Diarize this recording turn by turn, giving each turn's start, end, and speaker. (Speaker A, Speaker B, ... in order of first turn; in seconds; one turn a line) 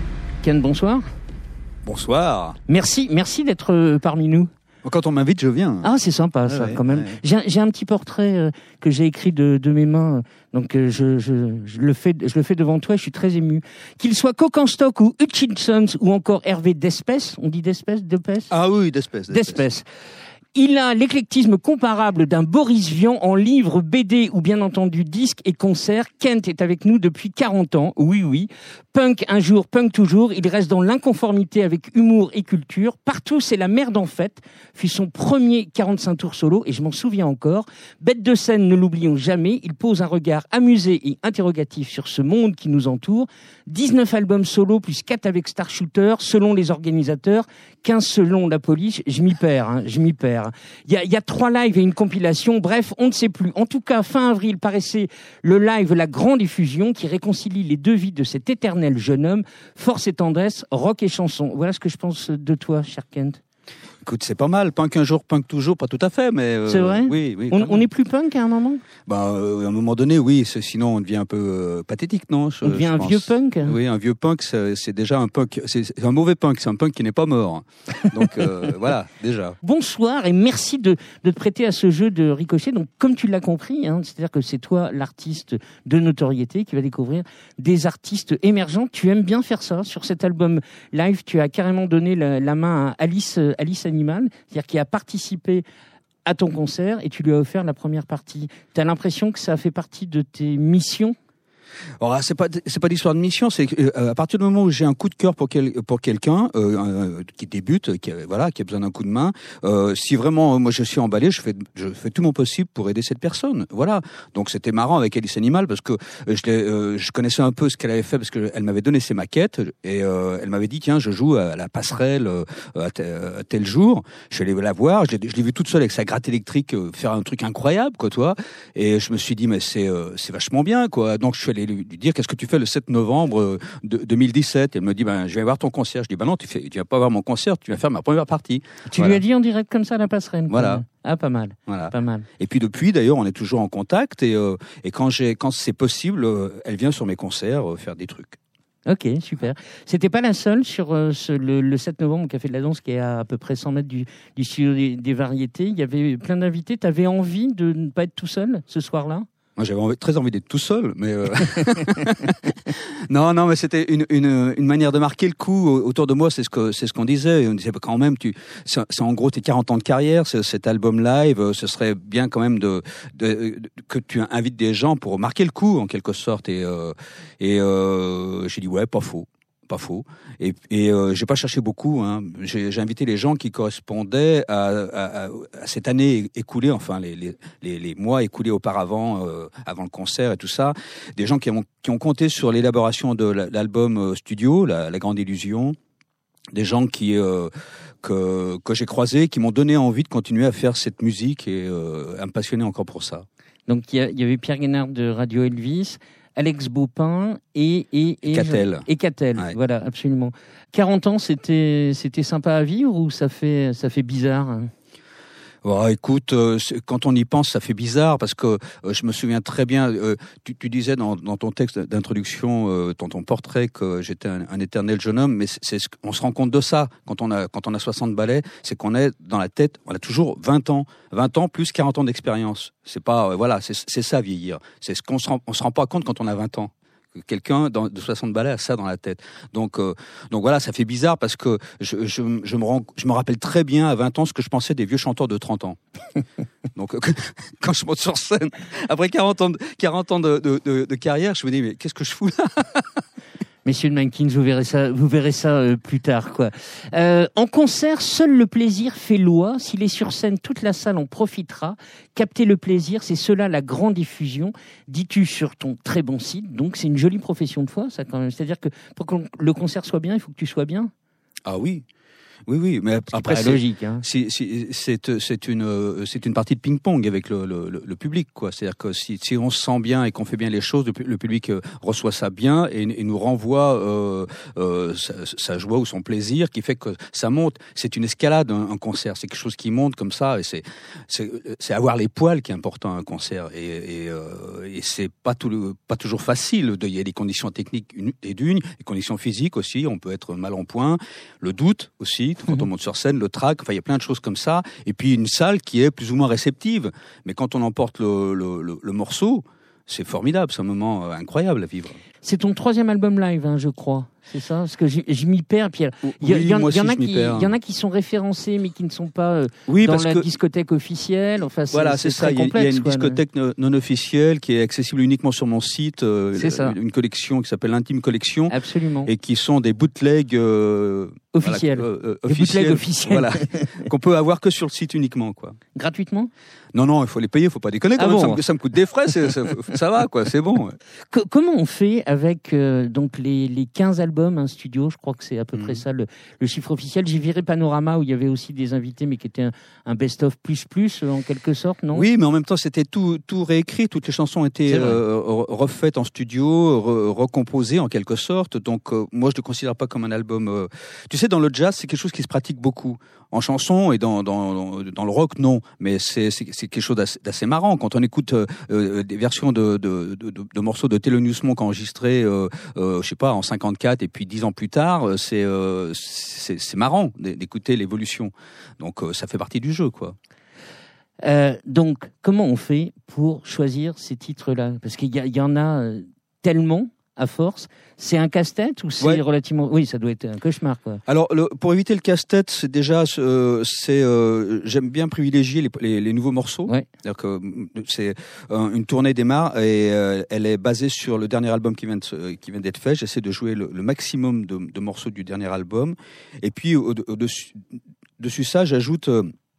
Speaker A: 0.4-1.0
Speaker B: 1.8-2.6
Speaker A: 2.7-4.5
Speaker B: 4.8-5.9
Speaker A: 5.8-18.5
Speaker B: 6.5-7.2
Speaker B: 18.5-19.6
Speaker A: 19.3-19.8
Speaker A: 20.5-63.4
Speaker B: 64.0-67.9
Speaker A: 66.7-68.8
Speaker B: 69.0-79.6
Speaker A: 72.6-73.8
Speaker A: 79.6-95.6
Speaker A: 96.2-101.1
Speaker B: 102.0-139.2
Speaker A: 138.9-142.2
Speaker B: 140.5-140.8
Speaker B: 141.7-148.4
Speaker A: 148.8-159.2
Speaker B: 159.6-195.8
Speaker B: 196.5-197.5
Speaker B: 198.0-203.2
Speaker A: 203.7-214.7
Speaker B: 208.3-208.8
Speaker B: 215.6-245.8
Speaker B: 246.7-253.0
Speaker A: 253.6-270.9
Speaker B: 271.4-271.8
Speaker B: 272.4-312.0
Speaker A: 273.1-274.0
Speaker A: 312.2-323.2
Speaker B: 316.0-317.5
Speaker B: 319.7-320.3
Speaker B: 321.7-335.6
Speaker A: 326.4-326.7
Speaker A: 328.5-329.1
Speaker A: 331.3-333.6
Speaker A: 335.7-336.3
Speaker B: 336.7-340.8
Speaker A: 338.0-338.4
Speaker A: 341.1-352.0
Speaker B: 345.5-345.8
Speaker B: 351.9-380.1
Speaker A: 354.7-355.0
Speaker A: 381.2-391.0
Speaker B: 391.1-409.3